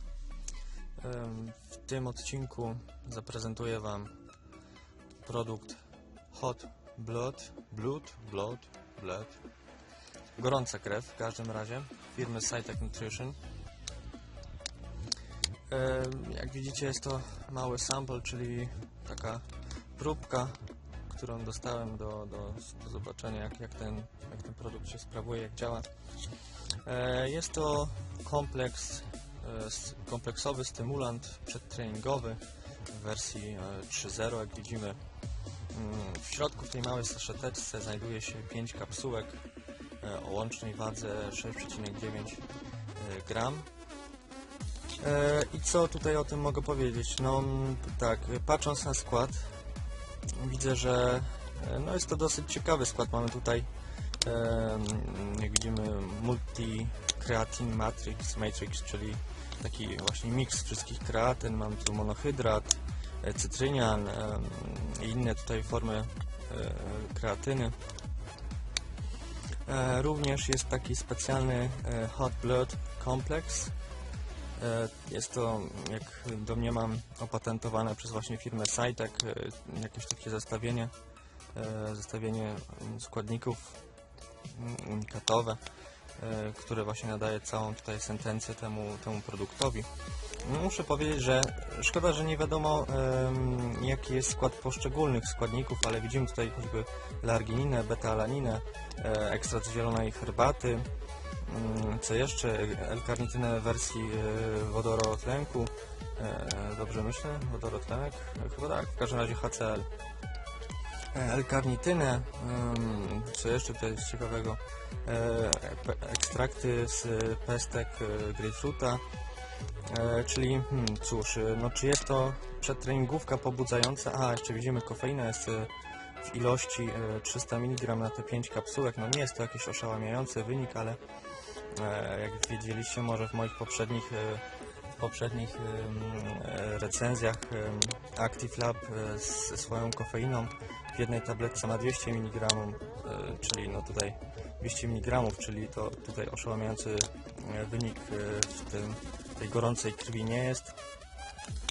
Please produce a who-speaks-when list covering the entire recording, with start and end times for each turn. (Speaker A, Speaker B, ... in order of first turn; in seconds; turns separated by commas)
Speaker A: 1.0-4.2, Speaker A: 5.2-5.8, Speaker A: 6.3-9.4, Speaker A: 10.3-13.4, Speaker A: 15.7-25.9, Speaker A: 26.8-35.0, Speaker A: 35.7-39.4, Speaker A: 40.0-43.7, Speaker A: 45.0-49.5, Speaker A: 50.4-53.7, Speaker A: 54.2-67.8, Speaker A: 69.7-73.7, Speaker A: 74.6-80.9, Speaker A: 81.5-83.8, Speaker A: 84.5-85.6, Speaker A: 86.2-89.9, Speaker A: 90.4-100.9, Speaker A: 101.4-109.9, Speaker A: 111.1-119.0, Speaker A: 119.8-125.7, Speaker A: 126.2-131.0, Speaker A: 131.7-134.4, Speaker A: 135.0-150.8